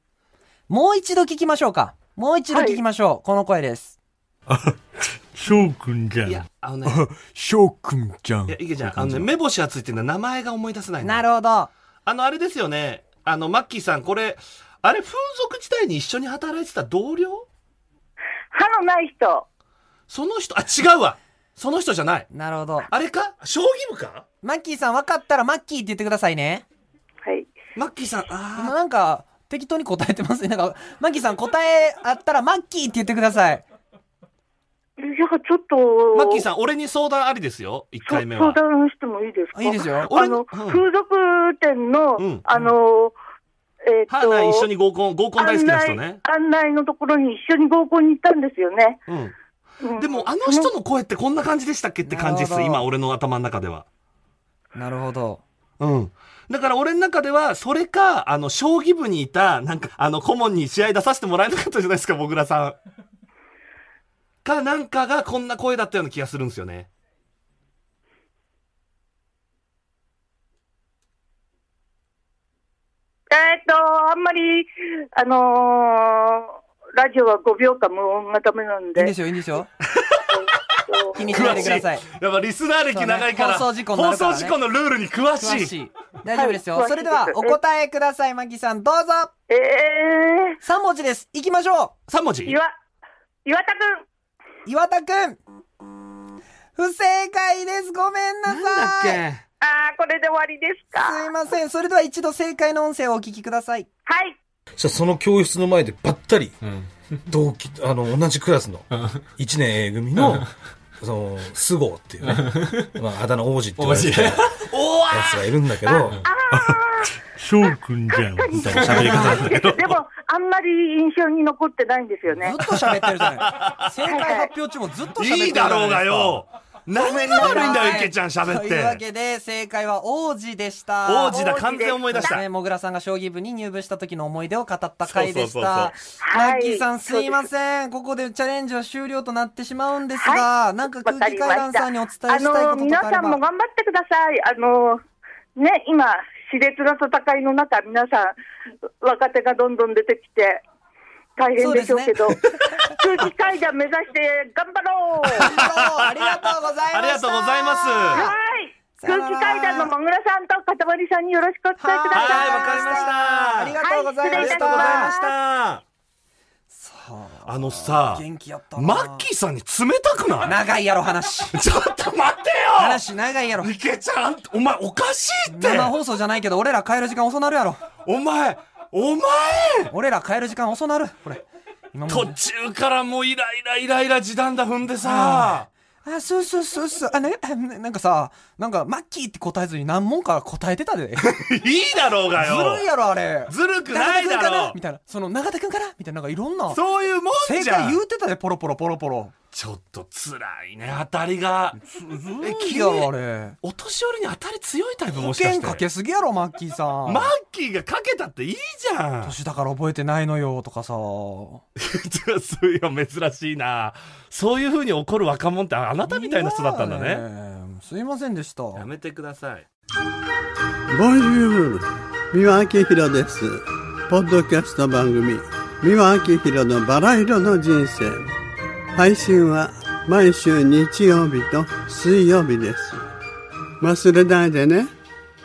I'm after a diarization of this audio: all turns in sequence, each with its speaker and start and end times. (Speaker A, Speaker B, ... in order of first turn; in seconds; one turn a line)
Speaker A: 0.7-4.0
Speaker B: 2.5-2.8
Speaker C: 4.5-4.8
Speaker C: 5.3-6.5
Speaker D: 6.2-7.0
Speaker A: 6.9-8.6
Speaker D: 8.5-11.2
Speaker A: 11.0-11.7
Speaker D: 12.0-17.5
Speaker B: 18.5-19.4
Speaker D: 20.1-22.3
Speaker A: 22.3-22.9
Speaker D: 22.9-24.2
Speaker A: 24.4-26.6
Speaker B: 27.2-27.5
Speaker D: 27.8-28.7
Speaker A: 28.5-33.6
Speaker B: 35.0-36.4
Speaker D: 36.1-38.6
Speaker B: 38.0-43.1
Speaker A: 39.5-40.1
Speaker D: 40.1-40.8
Speaker D: 42.2-42.5
Speaker B: 43.8-44.7
Speaker D: 44.1-46.2
Speaker B: 45.4-49.0
Speaker D: 49.1-49.3
Speaker B: 49.8-50.7
Speaker D: 50.0-53.9
Speaker A: 52.0-52.8
Speaker A: 54.7-55.4
Speaker D: 55.8-62.8
Speaker D: 64.4-66.9
Speaker B: 73.3-79.1
Speaker A: 79.0-79.7
Speaker D: 79.9-80.4
Speaker B: 80.3-81.7
Speaker A: 81.1-82.0
Speaker D: 81.2-85.7
Speaker A: 82.9-84.6
Speaker A: 85.4-89.3
Speaker B: 86.3-87.6
Speaker B: 89.5-90.6
Speaker A: 90.6-91.9
Speaker D: 92.1-92.6
Speaker B: 92.4-92.7
Speaker B: 93.4-94.0
Speaker A: 94.7-95.4
Speaker A: 96.8-99.2
Speaker D: 98.5-99.4
Speaker B: 99.6-101.2
Speaker A: 100.9-103.9
Speaker B: 104.1-104.3
Speaker E: 104.8-106.7
Speaker E: 107.3-116.2
Speaker C: 114.0-114.3
Speaker D: 114.7-115.4
Speaker B: 115.8-117.2
Speaker C: 116.5-119.9
Speaker B: 118.1-122.5
Speaker A: 122.3-126.4
Speaker D: 122.8-123.9
Speaker B: 124.1-124.5
Speaker D: 125.2-129.0
Speaker B: 127.0-128.0
Speaker A: 127.4-131.3
Speaker D: 131.1-132.4
Speaker B: 131.3-132.3
Speaker A: 132.2-143.4
Speaker D: 135.1-135.9
Speaker B: 136.2-137.5
Speaker B: 140.2-145.0
Speaker B: 145.6-148.3
Speaker B: 149.0-150.6
Speaker B: 151.4-155.6
Speaker A: 151.6-152.1
Speaker A: 152.7-152.9
Speaker D: 155.3-155.9
Speaker A: 155.4-158.3
Speaker D: 156.9-158.3
Speaker B: 158.1-163.1
Speaker A: 159.0-159.9
Speaker A: 161.8-165.1
Speaker D: 162.1-163.8
Speaker B: 163.8-165.3
Speaker D: 164.3-165.8
Speaker A: 166.7-169.2
Speaker D: 167.4-168.2
Speaker D: 168.8-170.6
Speaker A: 170.4-171.5
Speaker D: 171.5-173.0
Speaker A: 172.8-173.7
Speaker D: 173.6-175.9
Speaker A: 175.5-177.8
Speaker D: 178.0-179.9
Speaker A: 179.9-182.3
Speaker D: 182.1-185.7
Speaker A: 185.0-191.3
Speaker D: 191.2-192.8
Speaker A: 192.4-196.8
Speaker D: 193.5-194.8
Speaker D: 196.7-198.0
Speaker A: 197.4-199.3
Speaker D: 199.5-201.8
Speaker A: 201.7-203.6
Speaker D: 202.4-203.1
Speaker D: 203.6-205.8
Speaker A: 205.1-207.3
Speaker D: 207.1-209.3
Speaker A: 209.2-211.6
Speaker D: 211.8-217.2
Speaker A: 216.1-218.8
Speaker D: 218.7-219.7
Speaker F: 220.9-228.3
Speaker F: 228.9-233.0
Speaker F: 233.8-234.9